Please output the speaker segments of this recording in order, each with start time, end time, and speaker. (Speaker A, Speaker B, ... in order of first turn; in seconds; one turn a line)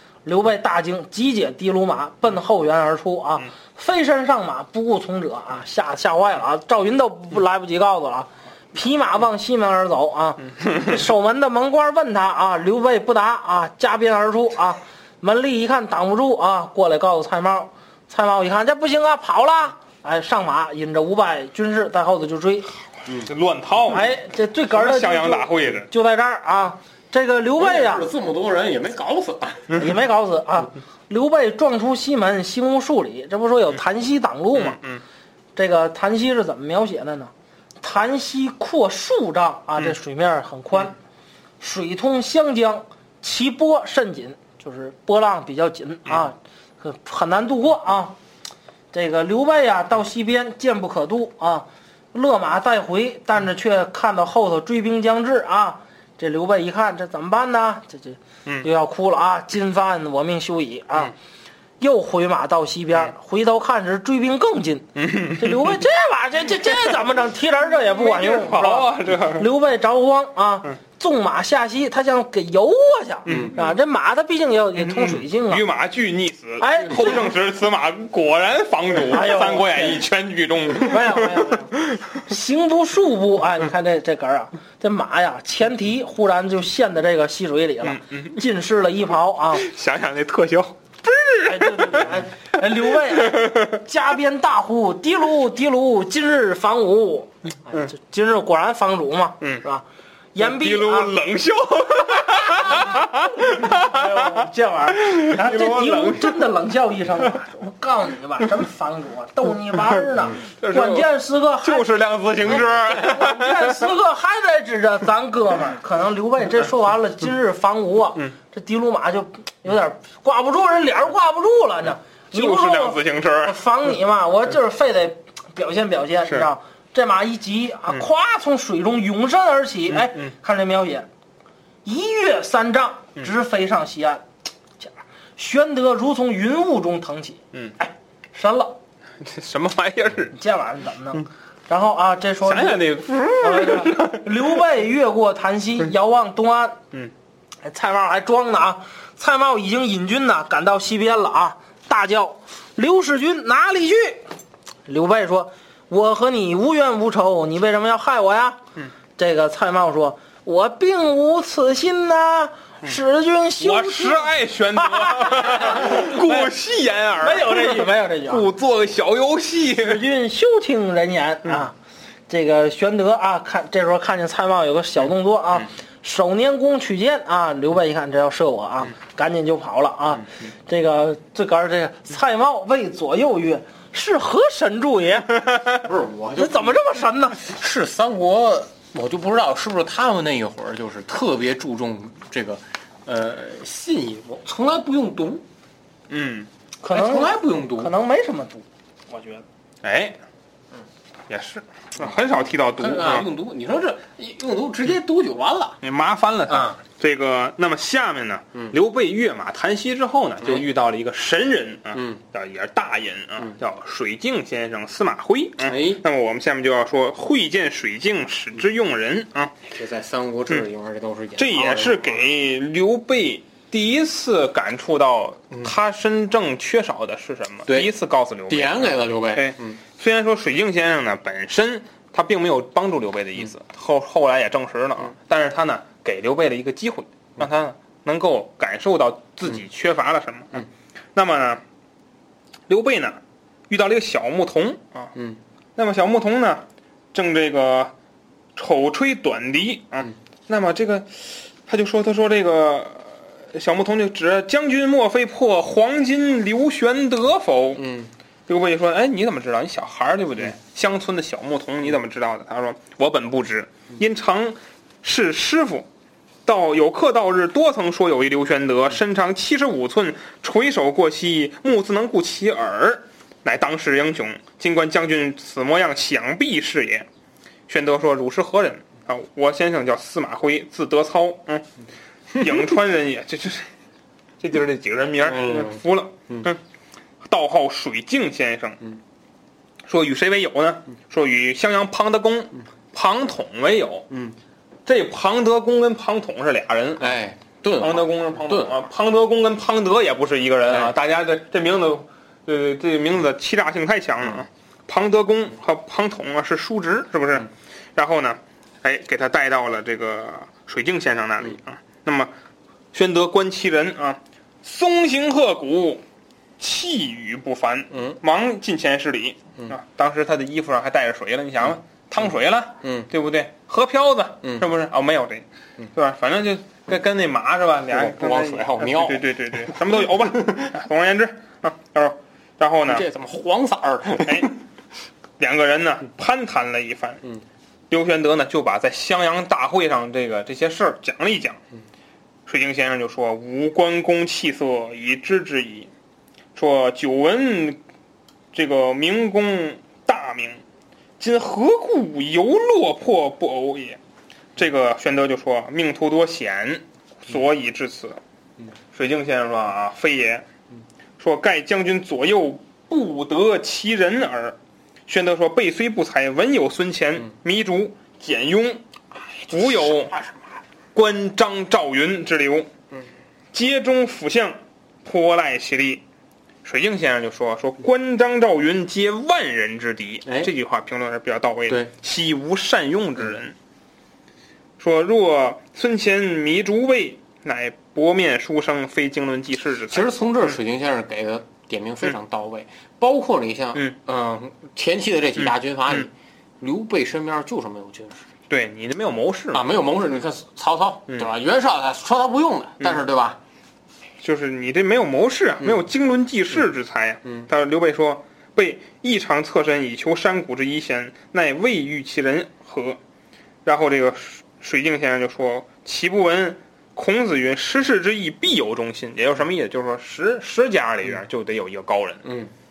Speaker A: 0.2-22.7
Speaker B: 23.2-24.1
Speaker A: 23.9-28.1
Speaker B: 24.7-25.9
Speaker C: 27.6-29.7
Speaker A: 29.7-34.8
Speaker B: 34.5-35.0
Speaker A: 35.5-40.9
Speaker A: 41.6-48.1
Speaker A: 48.9-61.1
Speaker A: 61.8-64.9
Speaker B: 65.0-65.8
Speaker A: 65.4-75.6
Speaker B: 67.9-69.5
Speaker B: 73.3-73.5
Speaker B: 74.8-82.1
Speaker A: 76.6-77.2
Speaker A: 79.1-80.0
Speaker A: 80.7-81.7
Speaker A: 82.3-89.7
Speaker B: 87.8-88.3
Speaker B: 89.5-92.1
Speaker A: 91.4-99.8
Speaker B: 93.1-93.6
Speaker A: 100.3-101.1
Speaker B: 100.4-106.4
Speaker A: 102.4-111.9
Speaker B: 110.6-111.1
Speaker B: 111.6-113.9
Speaker A: 112.8-131.1
Speaker B: 122.3-123.5
Speaker B: 129.9-130.3
Speaker A: 131.8-134.2
Speaker A: 134.8-138.8
Speaker B: 139.2-140.3
Speaker A: 140.3-142.8
Speaker B: 142.4-144.4
Speaker A: 143.4-146.8
Speaker A: 147.6-154.2
Speaker A: 154.8-158.6
Speaker A: 159.2-166.5
Speaker B: 163.6-170.0
Speaker A: 167.2-168.5
Speaker A: 169.7-171.7
Speaker A: 172.3-185.5
Speaker C: 185.8-186.8
Speaker A: 186.3-187.4
Speaker C: 187.4-195.4
Speaker B: 196.1-196.5
Speaker A: 196.8-199.4
Speaker C: 196.9-197.9
Speaker B: 199.8-200.2
Speaker B: 201.3-203.3
Speaker C: 202.8-205.8
Speaker B: 205.8-219.5
Speaker C: 206.5-206.8
Speaker C: 211.9-212.2
Speaker C: 215.6-216.0
Speaker C: 219.7-222.2
Speaker B: 221.4-241.6
Speaker C: 227.7-227.9
Speaker C: 228.5-229.8
Speaker B: 242.7-245.1
Speaker C: 245.1-245.4
Speaker B: 245.8-247.9
Speaker B: 248.6-257.9
Speaker C: 257.8-258.1
Speaker B: 258.5-265.9
Speaker B: 266.4-277.1
Speaker B: 277.7-281.6
Speaker B: 282.3-283.7
Speaker B: 284.4-286.6
Speaker C: 285.2-286.5
Speaker B: 287.2-288.8
Speaker B: 289.9-294.1
Speaker C: 294.1-294.4
Speaker B: 294.9-297.1
Speaker C: 297.0-298.8
Speaker B: 297.8-312.3
Speaker C: 300.7-300.9
Speaker B: 312.9-316.0
Speaker B: 316.6-333.1
Speaker C: 317.9-318.2
Speaker C: 322.8-323.1
Speaker C: 327.9-329.7
Speaker C: 332.9-334.5
Speaker B: 334.2-334.6
Speaker B: 335.4-337.2
Speaker B: 337.9-341.6
Speaker B: 342.5-345.9
Speaker B: 346.6-347.8
Speaker B: 348.5-350.6
Speaker B: 351.2-354.0
Speaker B: 354.6-358.2
Speaker B: 358.9-360.4
Speaker B: 361.2-368.8
Speaker C: 369.2-370.4
Speaker B: 369.5-370.1
Speaker B: 370.9-372.7
Speaker B: 373.5-376.0
Speaker B: 376.6-383.5
Speaker C: 380.2-380.5
Speaker B: 384.8-390.6
Speaker C: 389.9-398.3
Speaker B: 395.4-396.1
Speaker B: 398.5-399.6
Speaker C: 399.5-403.4
Speaker B: 404.2-413.0
Speaker B: 413.6-422.3
Speaker C: 422.2-422.5